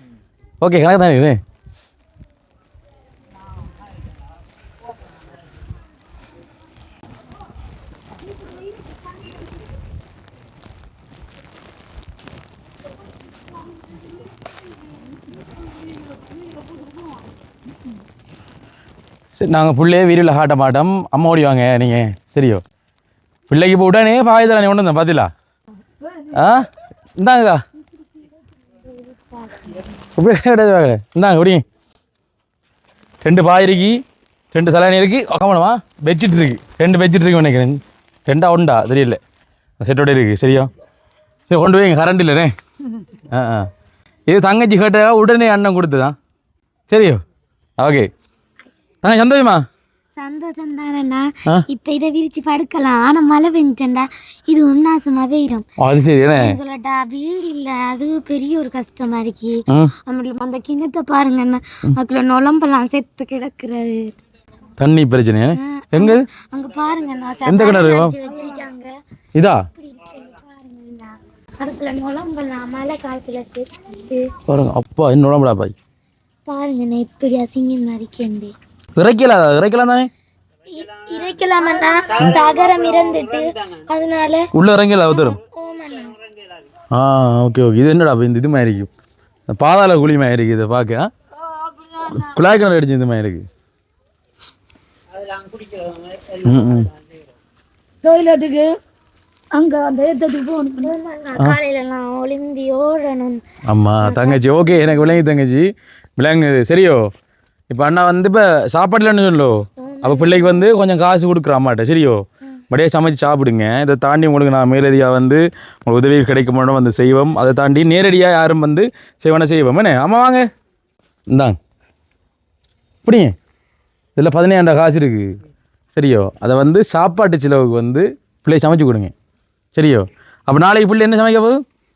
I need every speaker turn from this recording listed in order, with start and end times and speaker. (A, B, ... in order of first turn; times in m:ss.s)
0:00.6-0:01.4 A
0:19.4-0:22.6 A
0:23.5-0:25.3 A
0:26.0-0:26.3 B
0:26.3-0:27.6 A
0:30.2-0:31.6 A
0:33.2-0:39.2 A
0:39.8-0:40.7 A
0:41.5-0:42.5 A
0:43.3-0:43.7 A
0:44.3-0:46.2 A
0:46.9-0:47.2 A
0:47.8-0:48.1 A
0:49.0-0:49.6 A
0:50.2-0:55.6 C
0:55.8-0:56.6 A
0:56.3-1:04.1 C
1:04.8-1:06.2 A
1:05.6-1:09.0 C
1:07.4-1:08.2 A
1:09.3-1:09.7 A
1:09.7-1:14.3 C
1:14.5-1:15.7 A
1:16.4-1:18.5 C
1:19.0-1:20.1 A
1:20.7-1:24.5 C
1:24.5-1:25.4 A
1:25.1-1:26.2 C
1:26.9-1:28.9 A
1:29.5-1:31.1 A
1:31.5-1:32.4 B
1:32.1-1:33.4 A
1:36.4-1:36.9 A
1:38.0-1:38.8 B
1:39.5-1:40.9 B
1:40.8-1:43.4 C
1:43.7-1:47.1 A
1:44.0-1:45.2 C
1:47.7-2:00.5 A
1:49.8-1:50.6 C
2:01.3-2:01.6 A
2:03.0-2:03.3 A
2:04.2-2:05.4 A
2:05.9-2:09.1 A
2:09.7-2:11.6 A